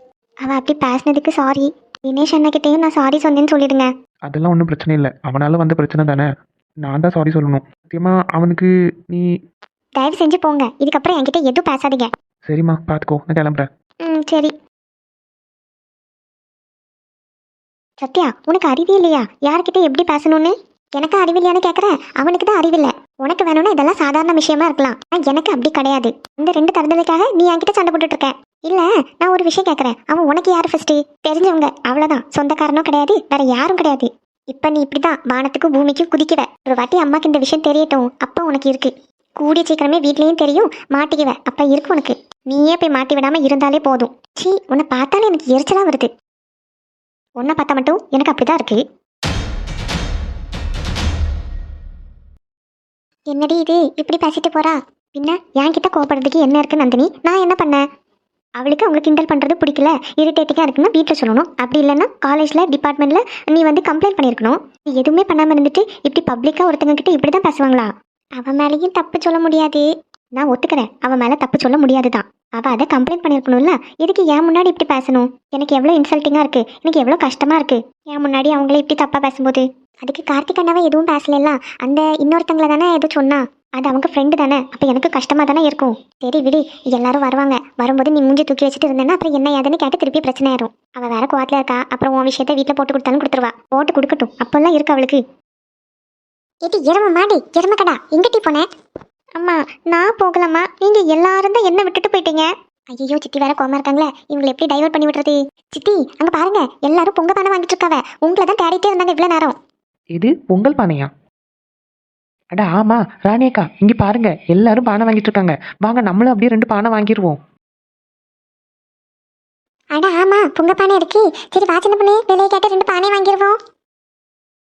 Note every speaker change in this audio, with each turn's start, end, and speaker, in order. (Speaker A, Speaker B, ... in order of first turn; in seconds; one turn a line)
Speaker A: 0.4-3.9
Speaker B: 4.2-6.3
Speaker B: 6.8-9.3
Speaker A: 10.0-12.1
Speaker B: 12.5-13.7
Speaker A: 14.1-14.5
Speaker A: 18.0-46.1
Speaker A: 47.4-48.8
Speaker A: 53.3-57.8
Speaker A: 58.6-69.8
Speaker A: 70.3-95.2
Speaker A: 96.6-98.7
Speaker A: 99.4-109.5
Speaker B: 110.1-111.1
Speaker B: 112.5-117.4
Speaker A: 119.9-123.6